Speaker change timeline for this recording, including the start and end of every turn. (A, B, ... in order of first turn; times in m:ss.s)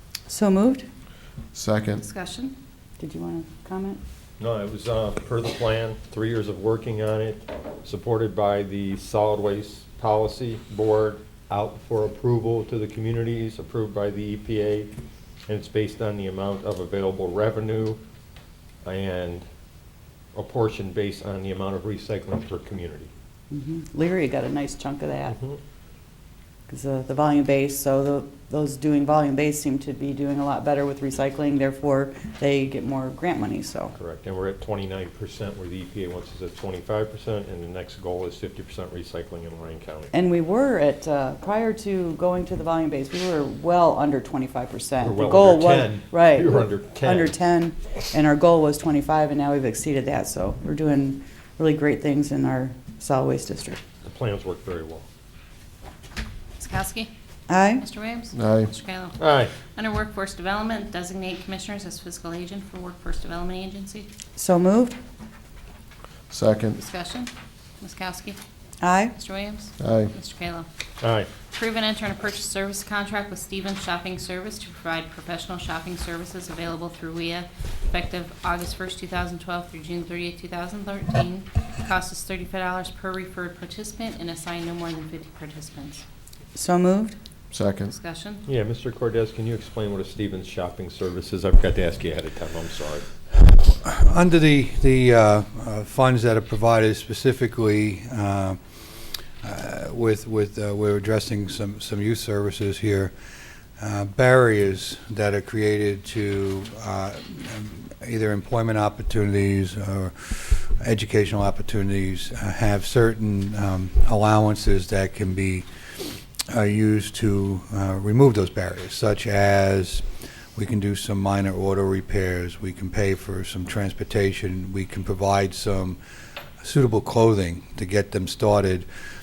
0:00.3-0:00.8 A
0:01.5-0:02.0 B
0:02.0-0:02.5 C
0:03.0-0:04.0 A
0:04.4-0:14.9 D
0:15.5-0:18.0 D
0:18.8-0:19.4 D
0:20.3-0:23.1 D
0:23.5-0:25.4 A
0:26.7-0:33.9 A
0:34.0-0:40.1 D
0:40.1-0:53.8 A
0:45.0-0:47.3 D
0:54.0-0:55.1 D
0:56.6-0:57.1 C
0:57.5-0:57.8 A
0:57.8-1:04.1 C
0:58.3-0:58.7 B
0:59.2-0:59.5 D
1:04.4-1:05.0 A
1:06.3-1:06.8 B
1:06.8-1:07.3 C
1:07.8-1:08.4 C
1:08.8-1:09.2 A
1:09.2-1:10.7 C
1:09.8-1:10.1 B
1:11.0-1:11.3 D
1:11.5-1:26.0 C
1:26.6-1:27.2 A
1:27.5-1:27.9 B
1:27.9-1:28.4 C
1:28.5-1:33.1 D
1:33.4-1:38.6 E
1:39.4-1:43.1 E
1:43.8-1:55.7 E
1:56.5-2:00.0 E
2:00.6-2:06.0 E
2:06.6-2:08.8 E